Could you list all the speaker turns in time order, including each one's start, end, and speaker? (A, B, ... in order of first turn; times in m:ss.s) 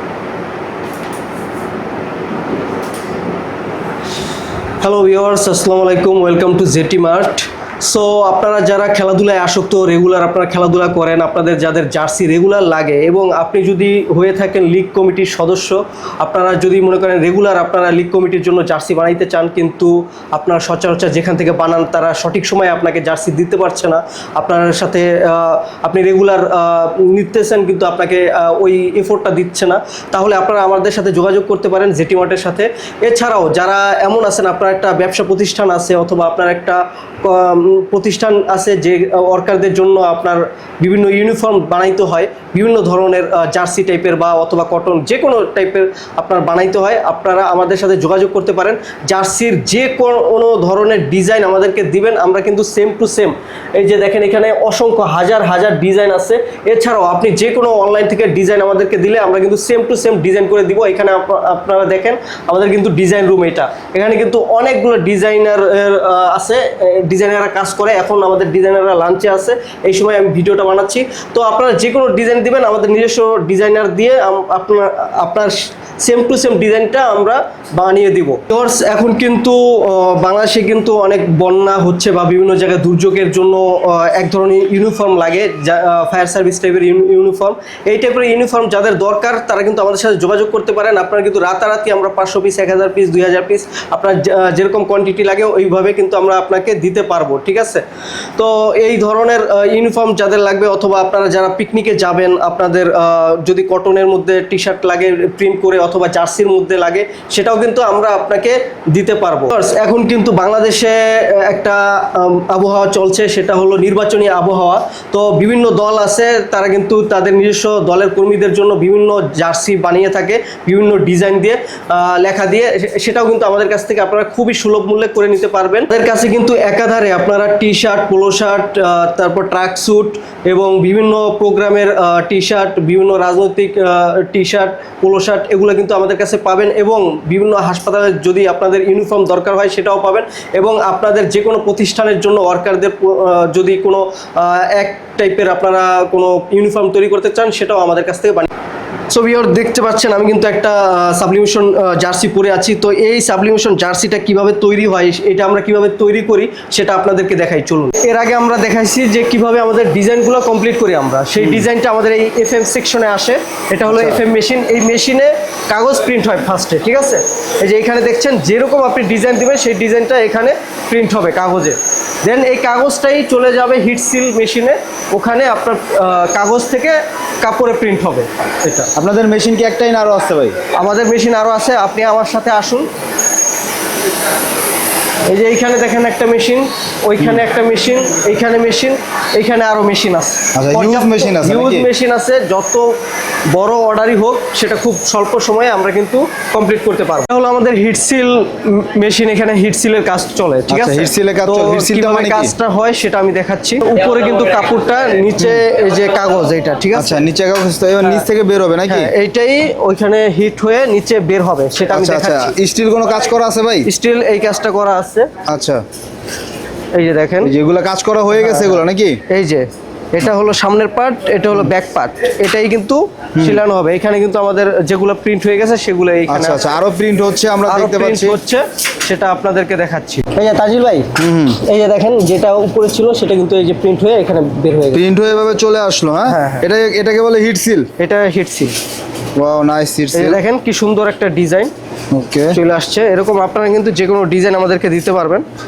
0:04.8-1:37.8 A
1:38.4-2:28.5 A
2:29.1-2:58.9 A
2:41.4-2:41.7 B
2:43.9-2:44.2 B
2:59.0-3:00.6 B
3:00.7-3:02.9 A
3:05.2-3:13.0 A
3:10.5-3:11.9 B
3:13.5-3:27.2 A
3:20.7-3:22.5 B
3:25.4-3:25.6 B
3:26.9-3:29.1 B
3:28.9-3:32.5 A
3:31.9-3:33.9 B
3:33.8-3:35.3 A
3:35.5-3:35.8 B
3:36.9-3:37.5 A
3:37.4-3:39.2 B
3:38.3-3:46.7 A
3:43.4-3:43.6 B
3:46.3-3:48.4 B
3:47.6-3:55.0 A
3:51.2-3:51.6 B
3:54.9-3:57.9 B
3:56.3-3:56.7 A
3:58.0-3:58.7 A
3:59.3-4:00.4 B
4:00.1-4:01.7 A
4:02.1-4:02.6 B
4:02.5-4:05.4 A